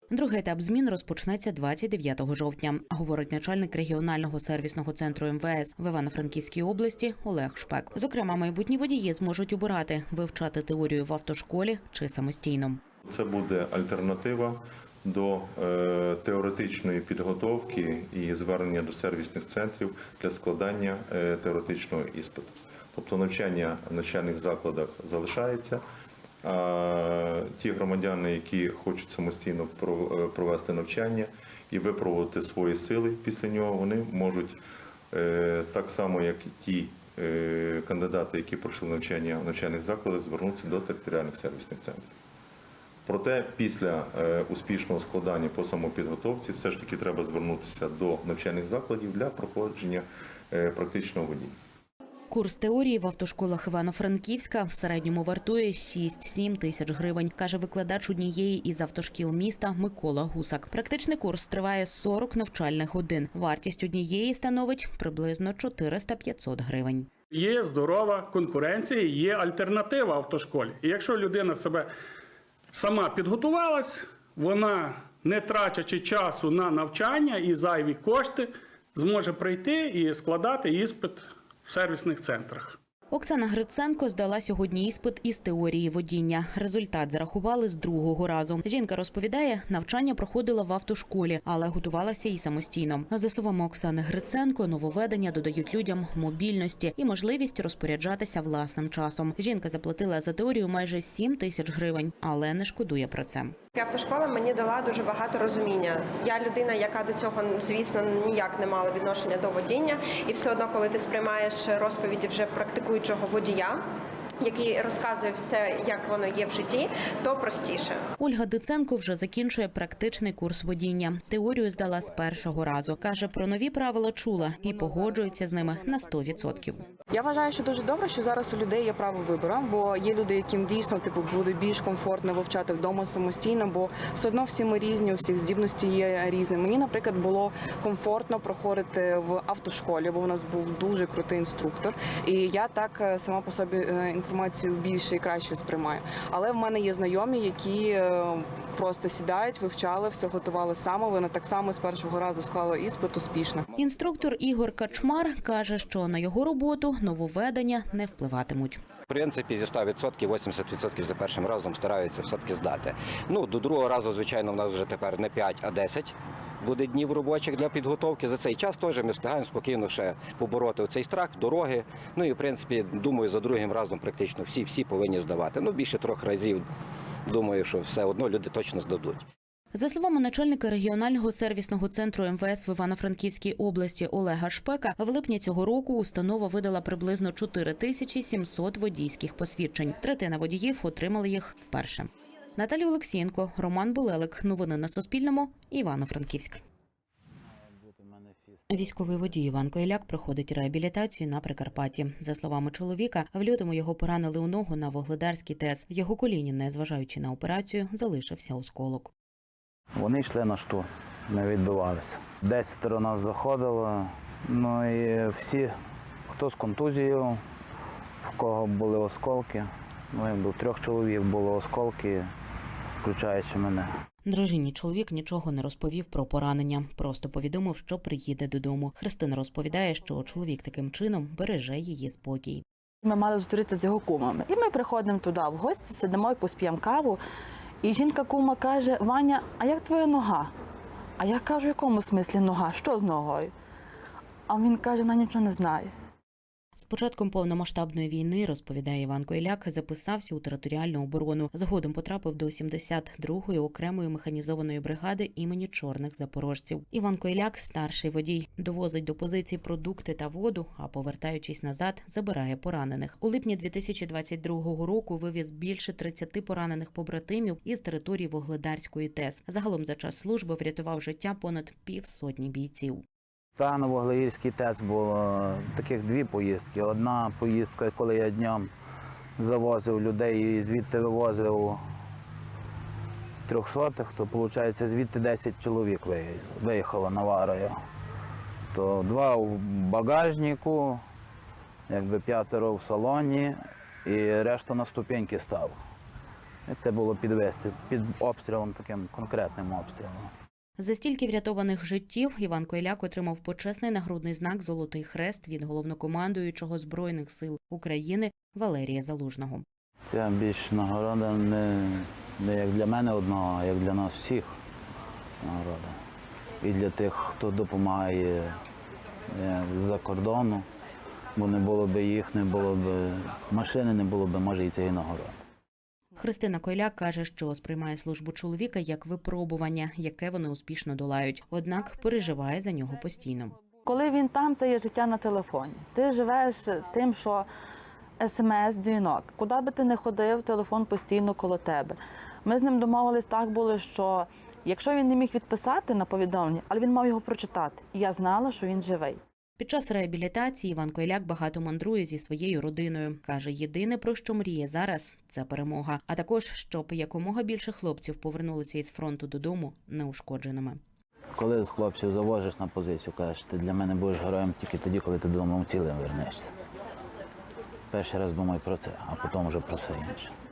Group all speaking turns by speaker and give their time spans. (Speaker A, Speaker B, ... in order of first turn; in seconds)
Speaker A: 0.1-12.8, 52.3-67.1, 83.1-103.5, 118.2-126.8, 153.7-158.8, 179.7-196.6, 198.7-209.1, 224.2-232.6, 246.8-273.0, 300.8-309.6, 326.2-333.6, 349.6-360.8
Speaker B: 13.1-25.8, 26.4-34.6, 35.1-42.0, 43.0-51.5
Speaker C: 67.3-71.9, 72.7-82.8
Speaker D: 103.7-113.8, 114.4-118.0
Speaker E: 127.1-153.6
Speaker F: 159.1-176.6, 177.2-179.2
Speaker G: 197.6-199.3, 209.9-215.7, 216.3-217.4, 218.2-222.3, 223.0-223.9, 273.6-278.7, 279.4-281.8, 283.4-287.8, 288.7-291.0, 291.9-295.8, 296.7-300.3, 310.1-314.5, 315.4-316.0, 316.6-318.6, 319.3-320.6, 321.4-325.4, 361.4-366.5, 367.9-370.3
Speaker H: 233.0-237.2, 237.8-240.5, 241.2-243.5, 244.5-245.9, 333.8-337.4, 338.2-349.2